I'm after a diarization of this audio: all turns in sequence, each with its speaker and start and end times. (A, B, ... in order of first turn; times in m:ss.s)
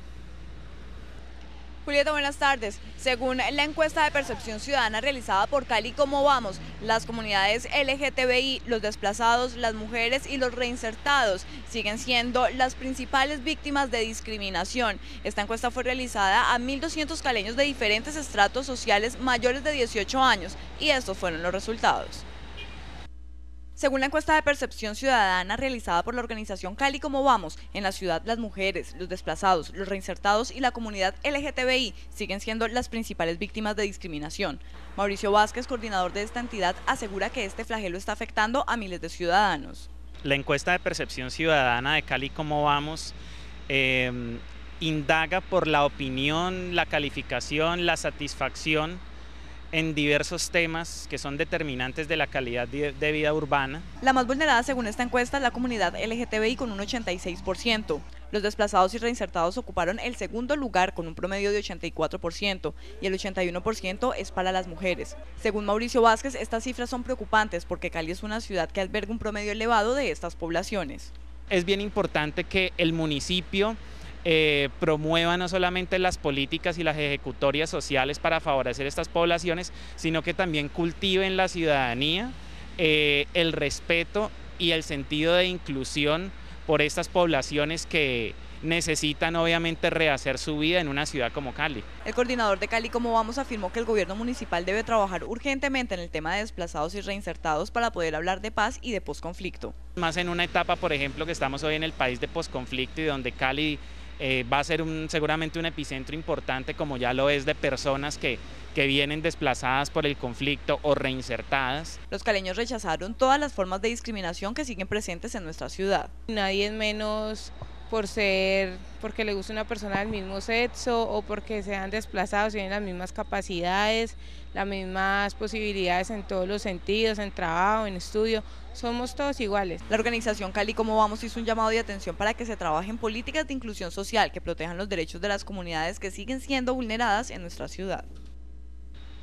0:01.8-0:22.2 A
0:23.8-0:39.9 A
0:40.2-0:43.1 B
0:43.7-0:49.0 B
0:49.7-0:53.8 B
0:54.0-1:11.1 A
1:11.5-1:31.8 B
1:32.0-1:39.7 A
1:40.0-1:52.0 B
1:52.1-1:56.1 A
1:56.3-2:09.8 C
2:09.9-2:18.1 A